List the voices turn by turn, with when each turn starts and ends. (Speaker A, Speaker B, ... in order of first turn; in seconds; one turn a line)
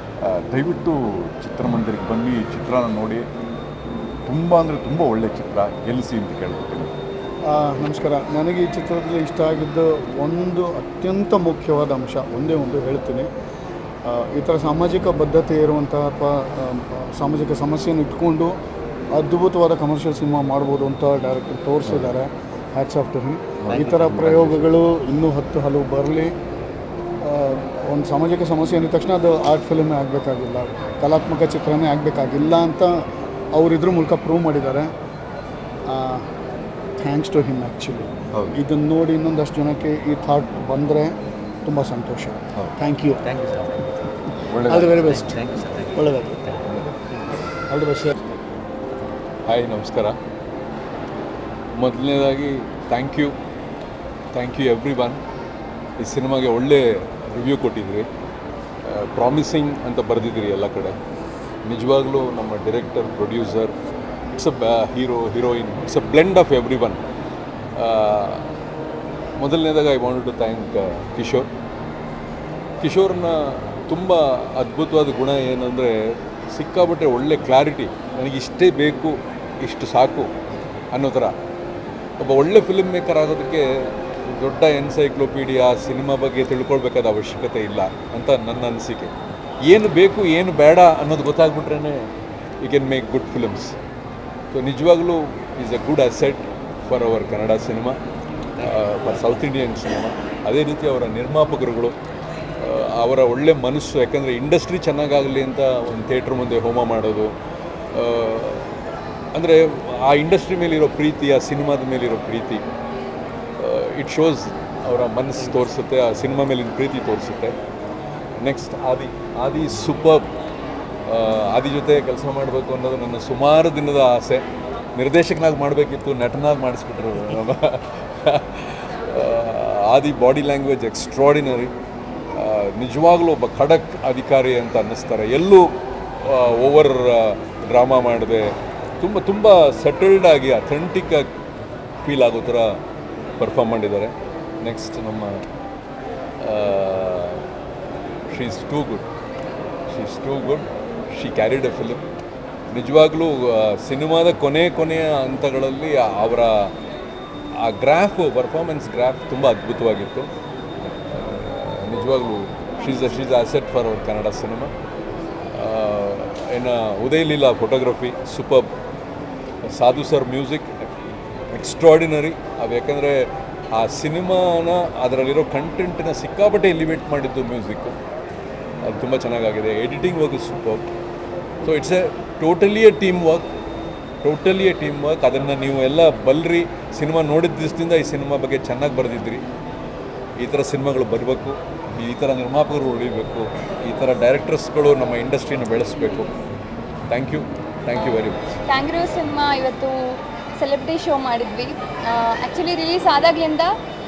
Speaker A: 0.2-3.2
Speaker A: 4.2-6.9
Speaker B: 7.5-13.3
Speaker B: 14.1-18.5
Speaker B: 19.1-26.3
Speaker A: 21.9-22.1
Speaker A: 23.6-24.6
Speaker B: 27.2-34.9
Speaker B: 35.9-36.2
Speaker B: 37.0-43.2
Speaker C: 43.2-43.9
Speaker A: 44.5-44.9
Speaker B: 44.7-45.4
Speaker C: 44.7-46.6
Speaker B: 45.9-46.4
Speaker B: 47.7-48.1
Speaker D: 49.5-50.1
Speaker D: 51.8-53.3
Speaker D: 54.3-55.2
Speaker D: 56.0-58.0
Speaker D: 58.9-60.9
Speaker D: 61.6-63.7
Speaker D: 64.3-67.0
Speaker D: 67.8-68.4
Speaker D: 69.4-71.5
Speaker D: 72.8-75.9
Speaker D: 76.5-80.3
Speaker D: 80.9-81.3
Speaker D: 82.2-83.6
Speaker D: 84.3-89.1
Speaker D: 89.7-92.0
Speaker D: 92.6-93.7
Speaker D: 94.5-98.0
Speaker C: 98.6-99.3
Speaker D: 98.6-101.9
Speaker D: 102.6-107.3
Speaker D: 107.9-108.7
Speaker D: 109.3-112.6
Speaker D: 113.6-117.5
Speaker D: 118.4-120.2
Speaker D: 121.1-124.4
Speaker D: 125.0-131.7
Speaker D: 132.3-135.7
Speaker D: 136.2-141.3
Speaker D: 142.0-142.8
Speaker D: 143.4-145.4
Speaker D: 146.4-147.4
Speaker D: 148.3-149.1
Speaker D: 149.9-152.0
Speaker D: 152.7-156.7
Speaker D: 157.6-160.3
Speaker D: 161.1-164.7
Speaker D: 165.5-168.7
Speaker D: 169.7-170.8
Speaker D: 171.5-177.9
Speaker D: 178.8-180.8
Speaker D: 181.6-183.4
Speaker D: 184.2-189.4
Speaker D: 190.4-196.3
Speaker D: 197.1-198.4
Speaker E: 198.7-203.7